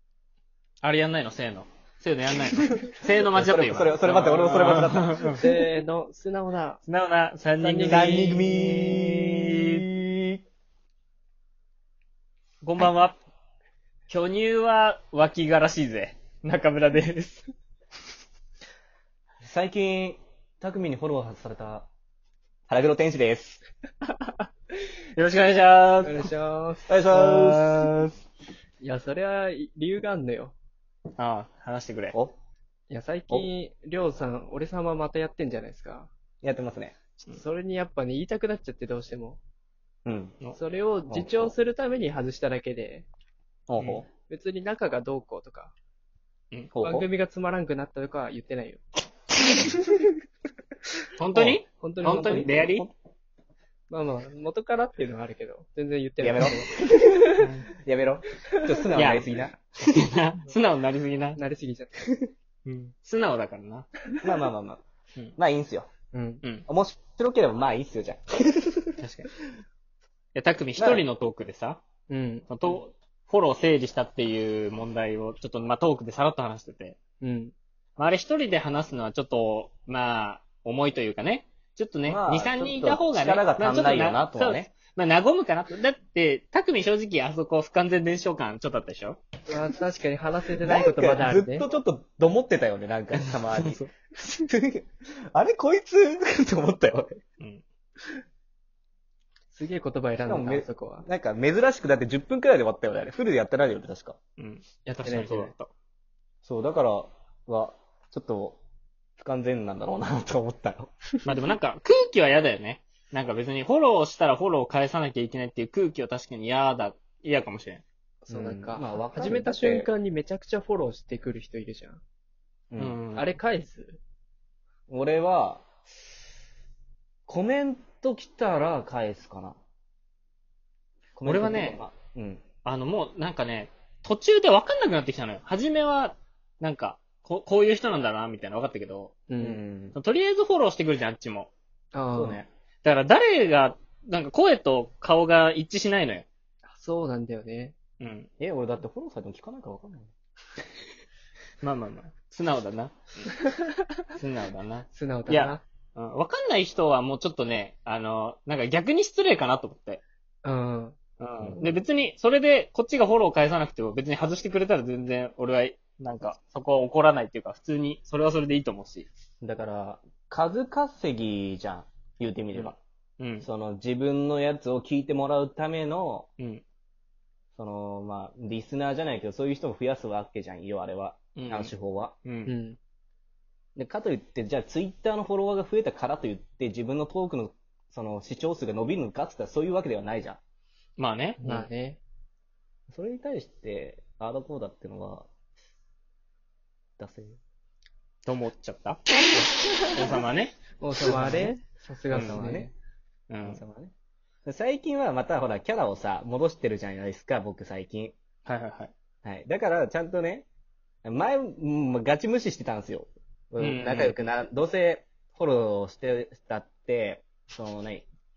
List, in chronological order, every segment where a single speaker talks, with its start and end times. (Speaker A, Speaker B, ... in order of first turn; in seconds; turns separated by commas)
Speaker A: 0.8-5.5, Speaker B: 3.3-5.4, Speaker C: 5.3-6.8, Speaker A: 6.8-9.8, Speaker C: 7.6-8.4, Speaker B: 7.8-10.4, Speaker A: 12.6-13.2, Speaker A: 14.1-17.4, Speaker B: 19.4-21.9, Speaker B: 22.7-23.6, Speaker A: 25.1-26.3, Speaker C: 26.0-27.9, Speaker B: 26.9-28.2, Speaker C: 28.8-30.5, Speaker A: 31.2-32.1, Speaker B: 32.1-32.4, Speaker C: 32.9-36.1, Speaker B: 36.4-37.0, Speaker C: 37.3-39.4, Speaker B: 40.0-40.4, Speaker C: 40.5-43.1, Speaker B: 41.1-41.5, Speaker B: 43.7-44.1, Speaker A: 43.8-44.0, Speaker C: 44.3-45.7, Speaker B: 46.7-47.1, Speaker C: 46.8-48.8, Speaker C: 49.5-50.1, Speaker A: 51.2-52.9, Speaker B: 51.3-51.6, Speaker C: 51.8-52.5, Speaker B: 52.2-52.9, Speaker C: 53.9-57.5, Speaker B: 56.2-59.9, Speaker A: 57.4-57.7, Speaker A: 58.9-61.4, Speaker C: 61.4-62.0, Speaker A: 62.6-63.9, Speaker B: 64.2-64.8, Speaker B: 65.3-65.9, Speaker C: 66.1-66.4, Speaker B: 66.7-69.0, Speaker A: 69.0-69.3, Speaker A: 70.3-71.8, Speaker B: 70.8-71.0, Speaker C: 72.1-72.5, Speaker A: 72.5-77.0, Speaker C: 77.2-77.5, Speaker A: 78.0-89.2, Speaker B: 82.0-84.7, Speaker C: 89.5-91.7, Speaker B: 90.6-97.2, Speaker A: 93.2-93.9, Speaker C: 99.5-101.0, Speaker B: 100.2-104.2, Speaker A: 104.4-105.7, Speaker C: 105.0-105.5, Speaker B: 106.4-108.6, Speaker B: 109.2-110.9, Speaker A: 111.2-117.8, Speaker C: 118.2-122.0, Speaker B: 118.3-119.9, Speaker B: 122.7-123.0, Speaker A: 122.8-123.3, Speaker C: 123.1-124.0, Speaker B: 124.9-125.7, Speaker B: 127.3-129.6, Speaker B: 131.2-132.4, Speaker A: 131.2-131.8, Speaker A: 132.6-139.2, Speaker C: 139.3-139.6, Speaker B: 139.4-139.9, Speaker A: 139.9-141.5, Speaker C: 141.9-142.4, Speaker B: 142.1-142.5, Speaker A: 142.8-146.2, Speaker C: 146.7-147.7, Speaker A: 148.0-148.3, Speaker B: 148.4-150.1, Speaker A: 151.6-153.3, Speaker A: 154.1-160.0, Speaker C: 154.9-155.6, Speaker C: 160.4-161.0, Speaker A: 161.2-169.1, Speaker B: 161.4-161.7, Speaker B: 169.4-172.8, Speaker A: 172.5-173.4, Speaker B: 173.4-176.3, Speaker B: 177.5-182.1, Speaker A: 181.3-181.7, Speaker A: 182.2-182.5, Speaker C: 182.4-182.8, Speaker B: 183.8-190.4, Speaker A: 191.0-191.7, Speaker C: 191.4-192.0, Speaker B: 192.9-195.3, Speaker B: 197.0-197.4, Speaker A: 198.2-199.0, Speaker A: 199.9-200.6, Speaker C: 200.8-202.7, Speaker B: 201.1-201.5, Speaker B: 202.1-202.7, Speaker A: 202.1-202.4, Speaker A: 203.3-203.6, Speaker B: 203.4-203.9, Speaker B: 204.4-208.2, Speaker A: 208.4-208.9, Speaker B: 209.2-210.5, Speaker B: 211.0-218.1, Speaker A: 213.6-214.1